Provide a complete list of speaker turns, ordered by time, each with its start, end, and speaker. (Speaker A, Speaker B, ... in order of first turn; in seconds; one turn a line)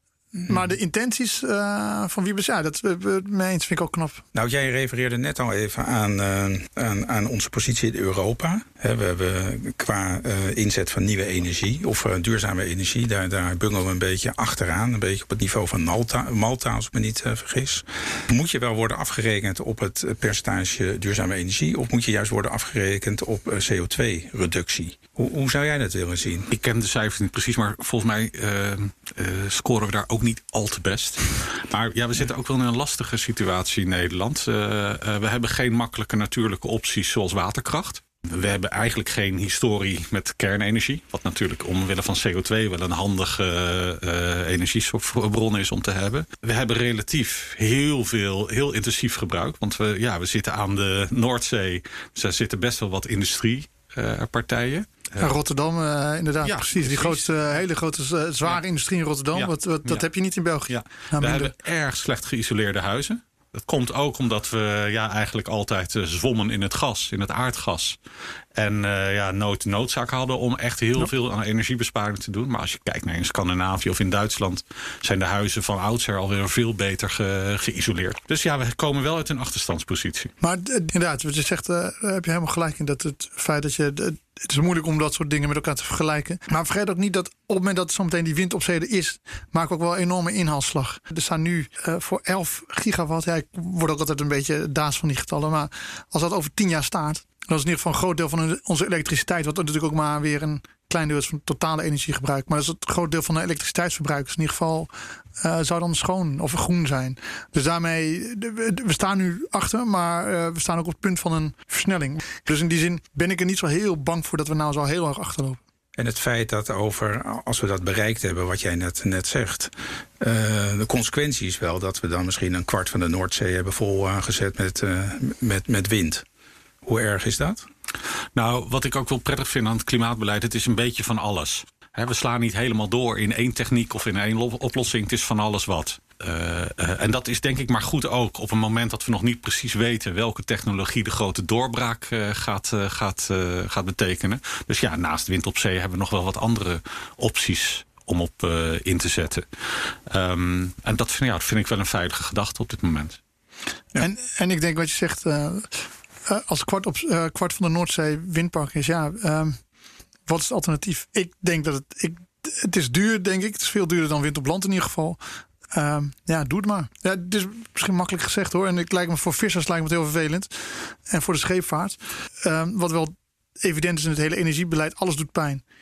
Speaker A: 0.5-4.2
Speaker B: 4.3-26.5
Speaker C: 26.5-55.3
Speaker A: 55.2-61.5
Speaker C: 56.4-57.6
Speaker C: 59.3-60.1
Speaker C: 60.7-68.0
Speaker C: 68.5-80.3
Speaker A: 80.4-115.6
Speaker B: 116.0-126.3
Speaker B: 126.8-127.7
Speaker C: 128.3-153.2
Speaker A: 154.0-159.6
Speaker A: 160.3-165.2
Speaker A: 165.7-175.6